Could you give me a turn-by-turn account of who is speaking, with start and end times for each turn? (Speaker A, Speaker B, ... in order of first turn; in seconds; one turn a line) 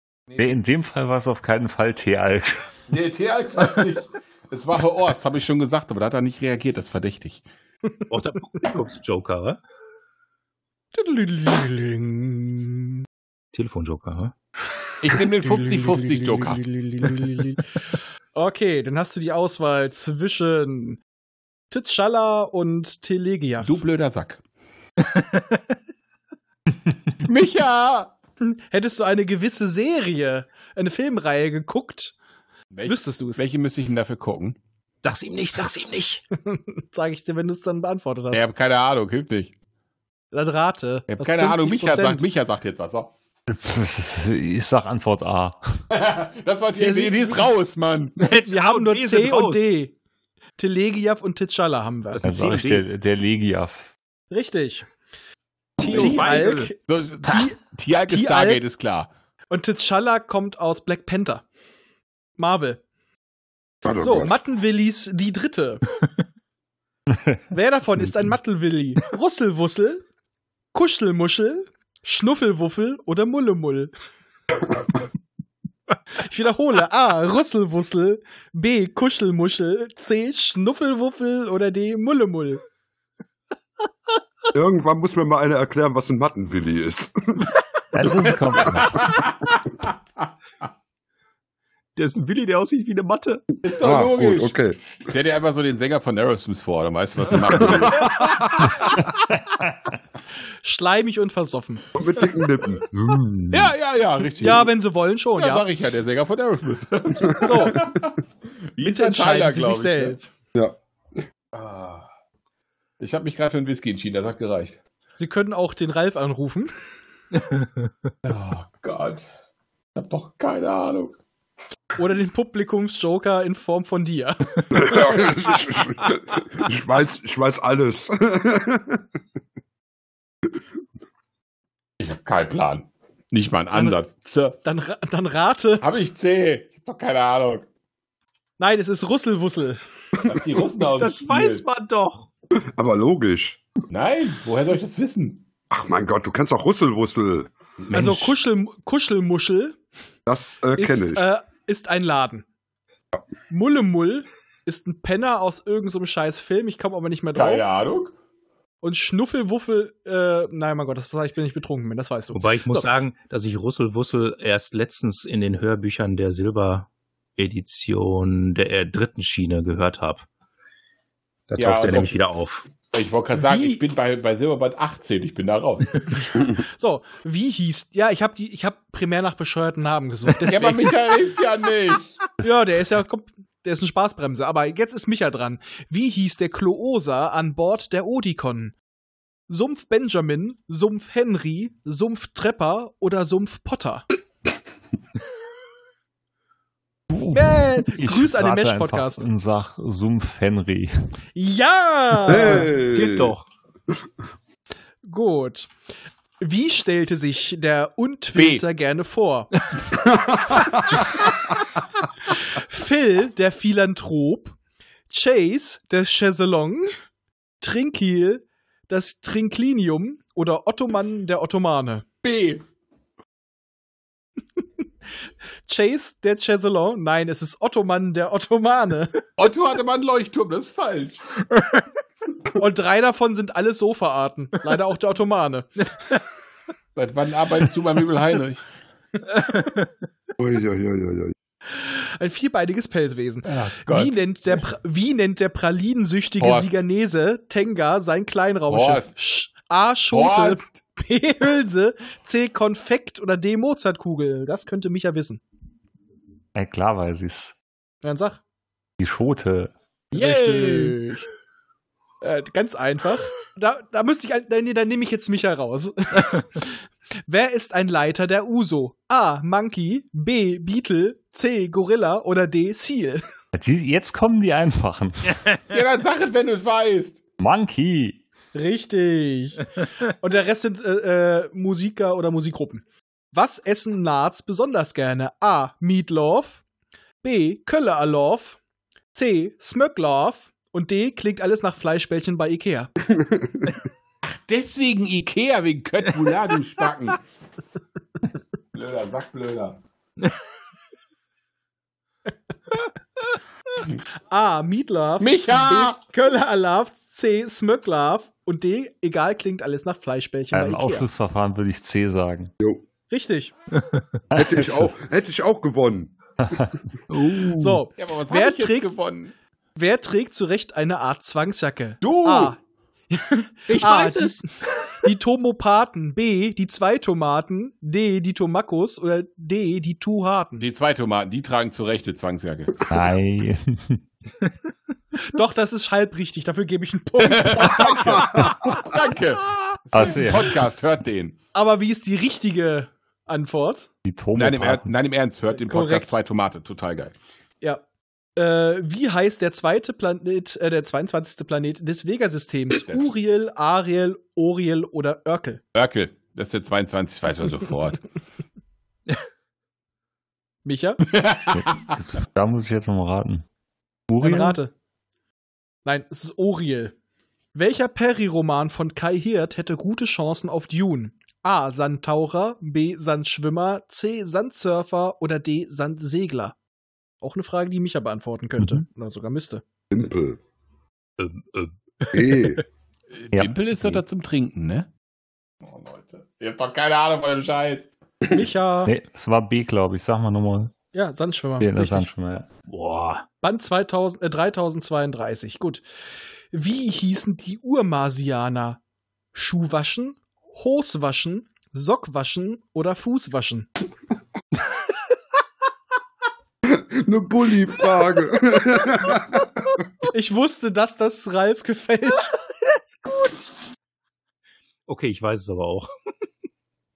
Speaker A: 0.4-2.7
Speaker B: 2.9-7.4
Speaker C: 8.1-9.6
Speaker D: 10.9-13.0
Speaker C: 13.5-14.3
Speaker B: 15.0-16.6
Speaker D: 15.4-17.8
Speaker D: 18.3-21.0
Speaker D: 21.7-23.8
Speaker B: 23.6-24.4
Speaker C: 25.0-25.6
Speaker B: 27.2-28.1
Speaker D: 28.4-32.1
Speaker B: 32.7-34.6
Speaker D: 32.9-33.4
Speaker C: 35.0-36.2
Speaker D: 36.4-38.5
Speaker B: 38.3-39.5
Speaker D: 40.3-42.2
Speaker B: 41.1-43.1
Speaker A: 43.5-45.6
Speaker B: 45.9-48.2
Speaker D: 46.8-47.5
Speaker C: 48.2-49.7
Speaker D: 48.3-49.9
Speaker D: 50.6-52.2
Speaker C: 52.1-52.8
Speaker A: 52.2-53.9
Speaker D: 54.3-54.9
Speaker C: 55.8-56.7
Speaker B: 55.8-59.1
Speaker D: 55.8-57.6
Speaker D: 58.1-58.6
Speaker D: 59.5-61.4
Speaker D: 62.4-62.8
Speaker E: 63.8-64.3
Speaker D: 64.0-65.8
Speaker D: 67.5-70.0
Speaker D: 70.7-73.9
Speaker D: 76.2-82.6
Speaker E: 84.5-87.5
Speaker A: 87.9-89.1
Speaker B: 88.2-90.3
Speaker C: 92.0-93.4
Speaker B: 93.6-94.5
Speaker E: 93.7-94.8
Speaker B: 95.1-98.7
Speaker E: 97.5-98.7
Speaker D: 100.6-101.8
Speaker E: 101.9-103.7
Speaker B: 103.5-104.7
Speaker D: 104.4-105.6
Speaker B: 105.3-108.2
Speaker D: 107.4-107.9
Speaker B: 108.7-110.2
Speaker D: 108.8-110.3
Speaker B: 111.5-112.1
Speaker B: 113.0-114.8
Speaker D: 115.2-116.7
Speaker C: 117.3-117.9
Speaker B: 118.2-119.2
Speaker B: 119.9-121.2
Speaker D: 122.0-124.6
Speaker E: 124.7-129.0
Speaker B: 132.0-134.6
Speaker D: 133.7-134.0
Speaker D: 134.6-135.8
Speaker B: 135.8-137.7
Speaker D: 138.6-139.8
Speaker B: 140.2-141.6
Speaker C: 141.0-142.3
Speaker E: 142.8-143.6
Speaker B: 143.9-145.4
Speaker E: 145.7-147.5
Speaker B: 147.8-148.3
Speaker D: 147.9-149.8
Speaker E: 150.3-151.3
Speaker D: 150.8-152.4
Speaker D: 153.5-157.7
Speaker B: 157.3-158.1
Speaker D: 158.8-162.9
Speaker C: 162.3-170.3
Speaker C: 171.5-172.7
Speaker B: 171.6-172.2
Speaker B: 172.9-176.0
Speaker D: 173.3-173.8
Speaker D: 176.7-180.9
Speaker B: 180.4-182.2
Speaker D: 182.4-188.7
Speaker D: 189.5-194.1
Speaker A: 197.1-200.9
Speaker D: 197.3-199.2
Speaker D: 201.3-202.7
Speaker E: 202.2-203.3
Speaker C: 202.7-203.5
Speaker D: 205.0-205.7
Speaker D: 206.4-209.5
Speaker B: 208.3-208.6
Speaker E: 210.0-211.0
Speaker D: 212.5-214.6
Speaker D: 215.1-216.9
Speaker D: 217.6-222.1
Speaker B: 222.2-222.6
Speaker D: 225.7-229.2
Speaker B: 229.4-231.2
Speaker C: 231.5-231.8
Speaker D: 232.6-235.9
Speaker B: 236.9-238.6
Speaker C: 239.3-239.9
Speaker E: 240.4-241.3
Speaker D: 241.7-255.4
Speaker B: 243.4-244.6
Speaker B: 246.4-246.7
Speaker B: 248.7-249.1
Speaker B: 250.1-250.8
Speaker A: 256.5-257.6
Speaker D: 258.0-258.4
Speaker A: 259.0-259.7
Speaker D: 260.1-261.0
Speaker B: 260.1-261.1
Speaker D: 262.2-266.7
Speaker D: 267.3-273.3
Speaker A: 273.5-275.4
Speaker B: 275.7-277.2
Speaker A: 277.4-278.2
Speaker D: 278.5-286.6
Speaker D: 287.2-288.6
Speaker D: 289.1-292.9
Speaker E: 293.1-293.8
Speaker B: 294.2-297.2
Speaker B: 298.7-299.8
Speaker D: 304.3-311.1
Speaker B: 305.2-306.0
Speaker A: 310.5-312.5
Speaker D: 313.1-313.5
Speaker A: 314.3-314.9
Speaker E: 314.4-316.1
Speaker A: 316.4-316.7
Speaker C: 317.1-317.8
Speaker D: 317.6-318.9
Speaker B: 318.0-319.3
Speaker D: 319.8-322.6
Speaker B: 322.0-322.5
Speaker D: 323.1-324.4
Speaker C: 323.7-324.5
Speaker D: 325.0-330.6
Speaker B: 330.6-332.8
Speaker A: 332.9-334.0
Speaker D: 335.2-338.3
Speaker B: 337.2-341.4
Speaker E: 337.8-338.9
Speaker A: 339.9-340.6
Speaker D: 341.5-343.9
Speaker A: 344.0-344.9
Speaker B: 344.3-347.1
Speaker D: 345.6-346.1
Speaker D: 348.4-355.6
Speaker B: 352.7-353.1
Speaker B: 355.7-358.1
Speaker D: 360.6-361.0
Speaker B: 361.1-361.9
Speaker A: 361.5-363.4
Speaker A: 364.1-364.6
Speaker D: 364.2-364.7
Speaker D: 365.8-366.9
Speaker D: 367.5-376.6
Speaker D: 377.2-379.6
Speaker E: 379.9-380.4
Speaker C: 381.2-382.4
Speaker E: 382.1-382.6
Speaker B: 383.1-384.9
Speaker A: 383.3-384.0
Speaker B: 385.6-387.9
Speaker D: 388.3-388.9
Speaker A: 388.9-390.7
Speaker D: 390.9-392.1
Speaker A: 391.6-392.4
Speaker C: 392.7-393.2
Speaker D: 393.4-395.8
Speaker D: 396.5-398.8
Speaker D: 399.3-403.7
Speaker E: 406.6-409.6
Speaker D: 410.1-412.3
Speaker C: 412.4-413.4
Speaker C: 414.9-415.9